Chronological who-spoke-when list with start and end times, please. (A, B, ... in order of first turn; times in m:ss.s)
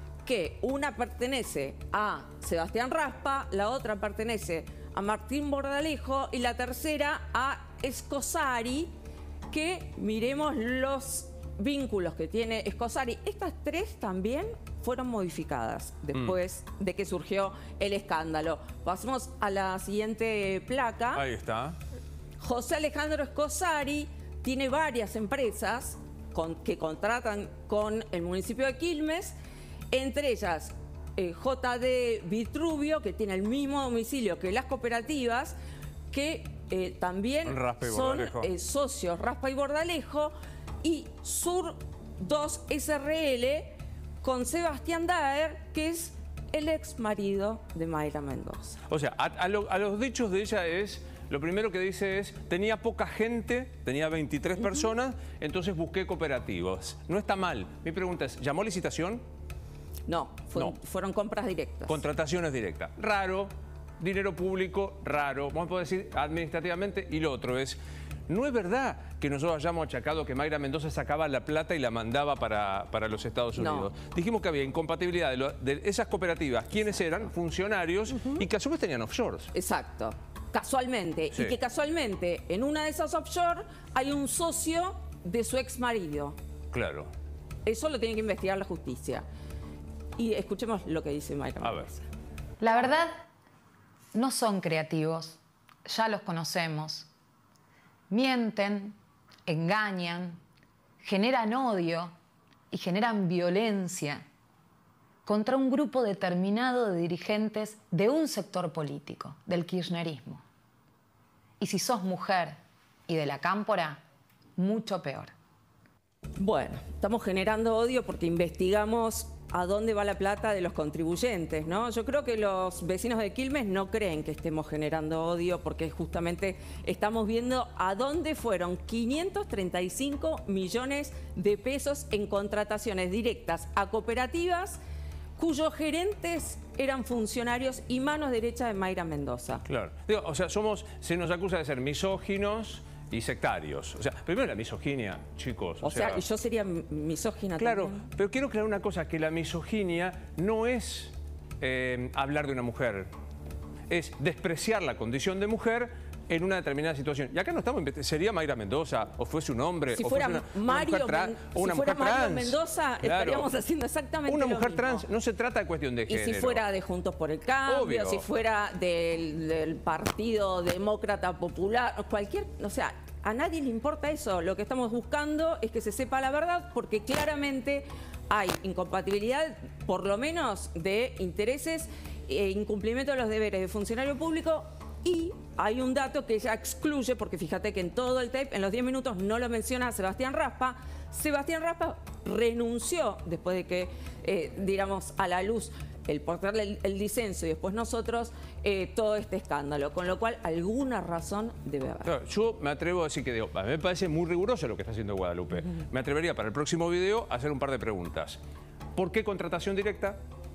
0:00.2-0:08.9 A
0:09.5-0:21.2 A
0:21.1-0:21.8 B
0:22.4-0:29.4 A
0:29.9-0:35.6 A
0:36.1-0:48.8 A
0:37.4-0:38.5 B
0:48.9-0:59.2 B
1:00.1-1:02.0 A
1:01.9-1:19.5 B
1:13.6-1:13.9 A
1:19.5-1:26.4 A
1:26.7-1:27.1 B
1:27.7-1:29.3 A
1:30.2-1:32.1 A
1:31.6-1:31.9 B
1:32.6-1:33.1 C
1:34.1-1:37.1 C
1:38.1-1:40.4 C
1:41.0-1:42.1 C
1:42.7-1:44.2 C
1:45.3-1:50.4 C
1:51.6-1:52.6 C
1:53.1-1:54.0 C
1:54.6-1:55.3 C
1:56.4-2:14.8 A
2:15.4-2:19.6 A
2:19.7-2:26.2 B
2:25.8-2:28.1 A
2:27.6-2:33.1 B
2:33.9-2:43.5 B
2:40.0-2:45.1 A
2:44.3-2:46.6 B
2:46.1-3:22.1 A
2:47.7-2:48.2 B
3:22.0-3:28.4 B
3:29.0-3:30.2 B